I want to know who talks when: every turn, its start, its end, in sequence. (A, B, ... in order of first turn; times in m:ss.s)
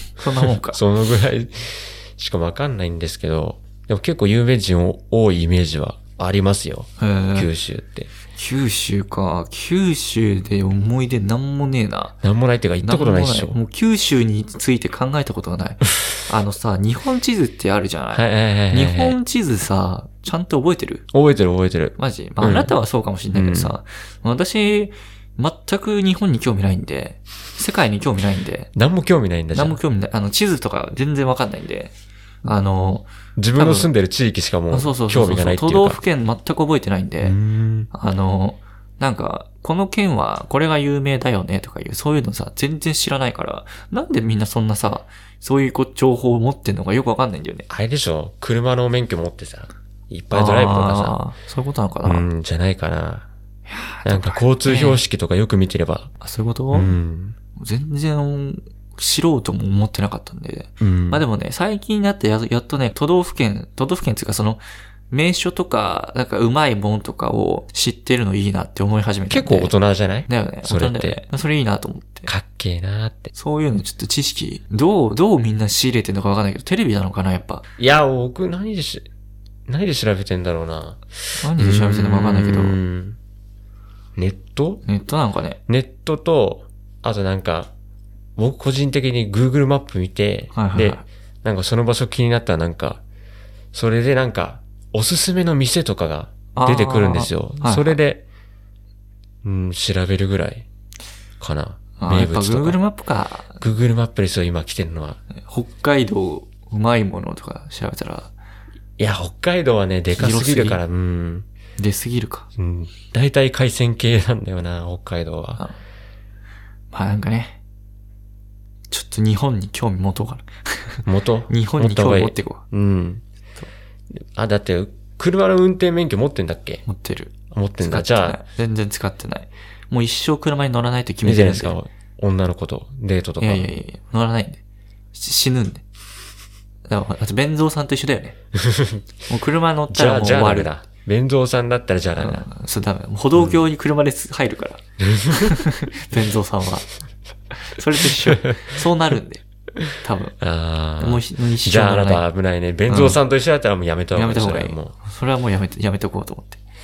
0:00.2-0:00.8 A
0:00.3-0:08.1 B
0:07.0-0:07.5 A
0:08.4-0:12.2 A
0:12.2-0:13.6 B
0:12.8-0:21.0 A
0:18.1-0:19.2 B
0:21.1-0:22.7 B
0:22.0-0:28.7 A
0:23.3-0:23.8 B
0:28.8-0:29.8 B
0:29.5-0:31.9 A
0:32.4-0:33.9 A
0:33.4-0:36.0 B
0:34.7-0:37.4 A
0:37.2-0:37.9 B
0:37.9-0:47.7 A
0:47.7-0:51.2 B
0:50.3-0:52.3 A
0:52.0-0:53.3 B
0:53.7-0:55.0 A
0:54.0-0:56.1 B
0:56.2-0:57.0 A
0:56.7-0:57.4 B
0:57.6-1:09.7 A
1:00.8-1:01.2 B
1:09.3-1:11.2 B
1:10.3-1:12.3 A
1:12.3-1:13.3 B
1:13.4-1:17.6 A
1:17.8-1:19.1 B
1:19.7-1:23.2 B
1:21.4-1:22.8 A
1:24.2-1:24.8 B
1:24.8-1:25.6 A
1:25.7-1:27.7 B
1:28.4-1:33.0 B
1:30.5-1:31.1 A
1:33.7-1:38.2 B
1:36.6-1:38.0 A
1:39.4-1:40.7 B
1:41.4-1:42.8 B
1:42.0-1:43.6 A
1:43.6-1:45.2 B
1:45.3-1:48.3 A
1:49.0-1:51.5 B
1:50.2-1:50.8 A
1:51.8-1:52.5 A
1:52.6-1:55.6 B
1:56.9-1:57.6 A
1:58.9-2:02.6 A
2:01.1-2:03.2 B
2:04.1-2:06.8 B
2:06.8-2:11.8 A
2:07.5-2:08.4 B
2:11.2-2:13.7 B
2:13.4-2:14.6 A
2:15.1-2:15.8 A
2:16.9-2:18.4 A
2:18.6-2:19.0 B
2:19.3-2:20.7 A
2:19.9-2:22.5 B
2:22.2-2:26.9 A
2:23.4-2:23.6 B
2:25.0-2:25.7 B
2:27.6-2:29.4 A
2:28.2-2:28.6 B
2:29.8-2:34.9 B
2:30.0-2:30.4 A
2:31.0-2:32.2 A
2:32.9-2:33.2 A
2:34.1-2:36.6 A